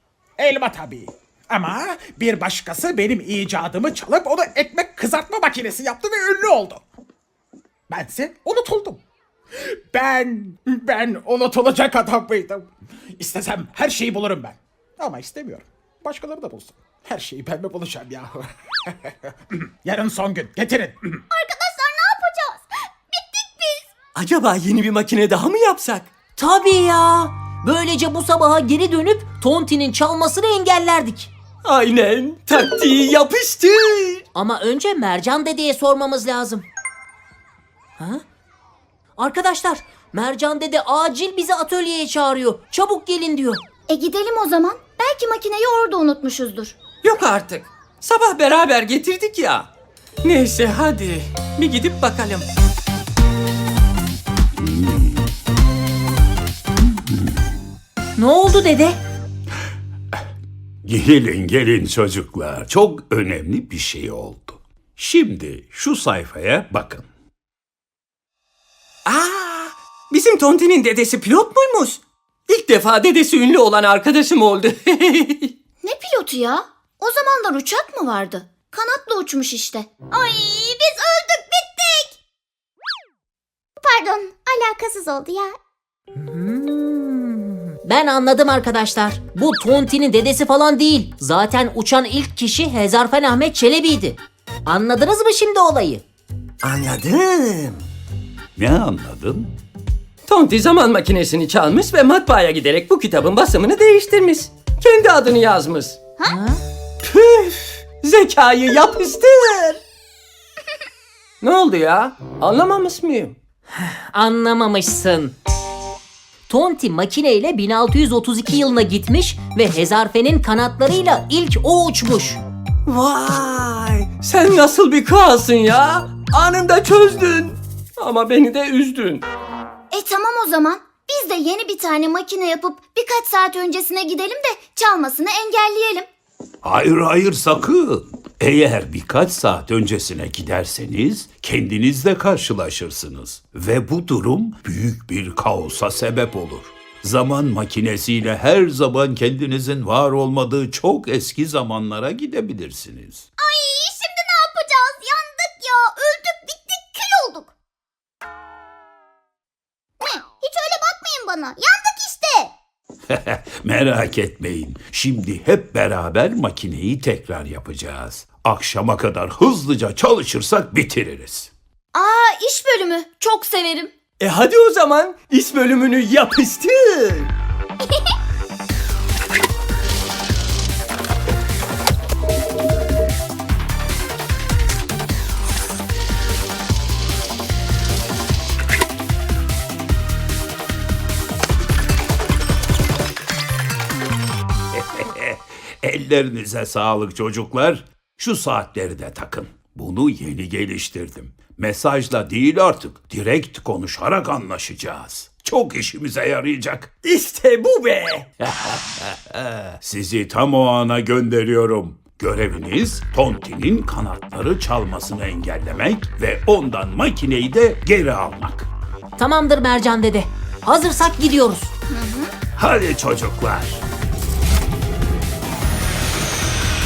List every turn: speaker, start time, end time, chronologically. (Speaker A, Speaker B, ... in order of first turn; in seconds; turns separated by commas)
Speaker A: 0.4-6.8, Speaker A: 7.9-9.0, Speaker A: 9.6-21.2, Speaker B: 21.3-23.9, Speaker C: 24.2-26.1, Speaker D: 26.4-31.3, Speaker C: 31.6-34.2, Speaker D: 34.3-36.7, Speaker D: 38.0-38.2, Speaker D: 39.2-43.6, Speaker E: 43.9-46.8, Speaker C: 47.0-49.7, Speaker C: 50.2-52.4, Speaker F: 54.6-55.2, Speaker D: 58.2-59.0, Speaker F: 60.9-67.1, Speaker C: 69.1-75.5, Speaker E: 75.8-79.9, Speaker B: 80.1-82.2, Speaker B: 83.8-85.6, Speaker D: 86.1-96.0, Speaker C: 96.6-97.8, Speaker F: 98.6-99.5, Speaker C: 100.3-106.0, Speaker D: 106.3-106.6, Speaker C: 107.0-109.8, Speaker C: 111.4-113.4, Speaker D: 113.8-115.3, Speaker D: 116.5-122.4, Speaker C: 122.9-129.2, Speaker E: 129.9-136.1, Speaker F: 136.6-153.3, Speaker B: 153.4-157.5, Speaker B: 160.0-162.5, Speaker F: 163.1-171.5, Speaker E: 171.9-173.9, Speaker C: 174.2-177.3, Speaker F: 194.7-206.9, Speaker C: 207.0-208.3, Speaker F: 208.4-218.7, Speaker D: 219.2-221.7, Speaker E: 221.9-222.3, Speaker F: 222.6-223.8